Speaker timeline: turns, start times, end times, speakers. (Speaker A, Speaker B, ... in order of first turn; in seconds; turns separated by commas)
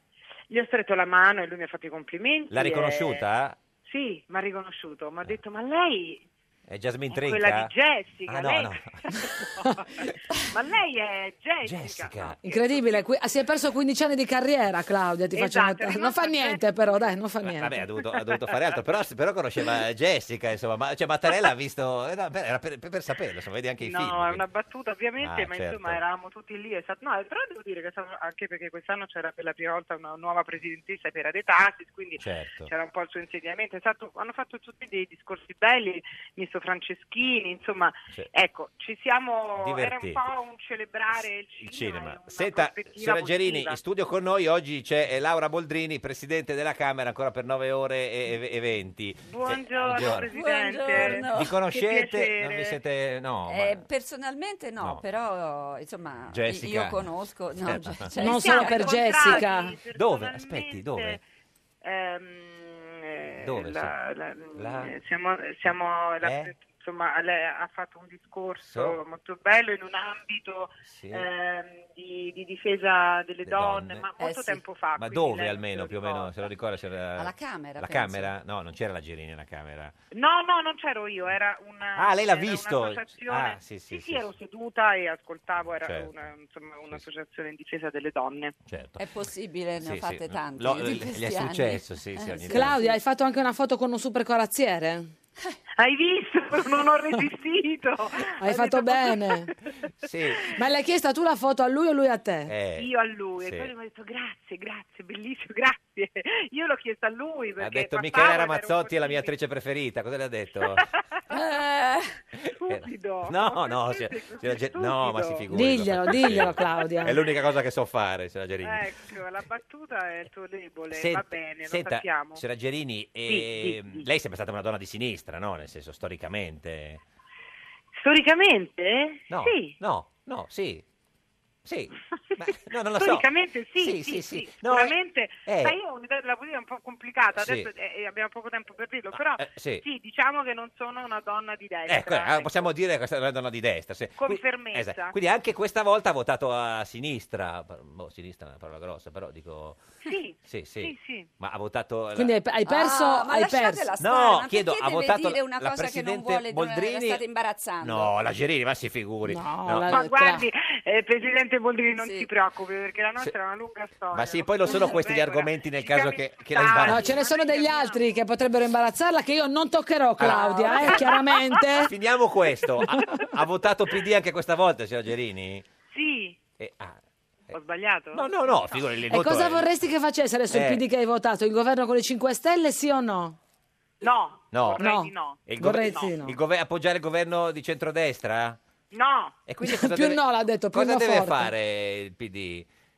Speaker A: 0.5-3.2, Speaker B: 2.5-3.6, Speaker A: 3.8-6.2, Speaker B: 6.7-7.7, Speaker A: 7.1-13.1, Speaker B: 8.2-9.4, Speaker B: 11.6-12.4, Speaker C: 12.4-17.8, Speaker A: 15.3-17.2, Speaker B: 17.4-24.4, Speaker A: 23.8-43.8, Speaker B: 25.2-26.0, Speaker B: 32.2-32.7, Speaker B: 39.6-40.2, Speaker B: 41.6-53.8, Speaker A: 49.2-52.8, Speaker D: 50.3-51.5, Speaker D: 53.5-59.4, Speaker B: 54.8-55.0, Speaker B: 56.3-58.1, Speaker C: 58.2-59.8, Speaker A: 58.2-61.2, Speaker B: 59.9-61.2, Speaker A: 61.8-76.4, Speaker B: 63.4-64.0, Speaker B: 64.5-65.0, Speaker B: 66.2-66.5, Speaker B: 68.6-69.0, Speaker B: 70.9-71.3, Speaker B: 73.4-74.1, Speaker D: 74.2-74.6, Speaker B: 75.0-79.9, Speaker D: 77.2-78.3, Speaker A: 80.1-88.5, Speaker B: 82.0-84.3, Speaker B: 85.8-86.1, Speaker B: 88.7-89.0, Speaker D: 89.0-93.0, Speaker B: 89.8-92.8, Speaker C: 92.5-95.1, Speaker A: 95.8-99.5, Speaker C: 98.4-99.5, Speaker B: 100.0-100.5, Speaker C: 100.5-102.5, Speaker B: 102.5-103.7, Speaker A: 102.8-109.3, Speaker B: 107.6-110.9, Speaker A: 110.8-111.3, Speaker D: 111.3-112.1, Speaker B: 112.3-119.1, Speaker A: 112.6-115.5, Speaker C: 115.5-117.2, Speaker A: 118.6-122.4, Speaker B: 120.9-127.0, Speaker A: 123.3-124.0, Speaker A: 128.0-129.8, Speaker B: 129.3-130.8, Speaker B: 131.6-135.8, Speaker A: 133.0-142.7, Speaker B: 137.3-137.7, Speaker B: 139.1-139.8, Speaker B: 141.9-149.8, Speaker A: 144.2-145.1, Speaker A: 150.0-151.3, Speaker B: 150.4-152.3, Speaker C: 152.2-153.9, Speaker D: 152.7-158.1, Speaker B: 154.0-157.2, Speaker B: 157.8-160.0, Speaker C: 159.3-160.4, Speaker A: 159.9-168.0, Speaker D: 162.0-162.3, Speaker B: 164.1-167.2, Speaker C: 166.8-171.9, Speaker B: 170.2-171.1, Speaker A: 170.6-171.8, Speaker B: 171.8-175.6, Speaker A: 175.9-176.4, Speaker B: 176.6-177.0, Speaker A: 177.5-178.8, Speaker B: 178.1-179.7, Speaker C: 179.1-183.4, Speaker B: 180.5-180.8, Speaker A: 184.0-186.1, Speaker B: 184.5-184.8, Speaker C: 184.8-186.3, Speaker B: 185.4-188.6, Speaker A: 188.9-189.4, Speaker B: 189.4-192.7, Speaker C: 189.6-191.5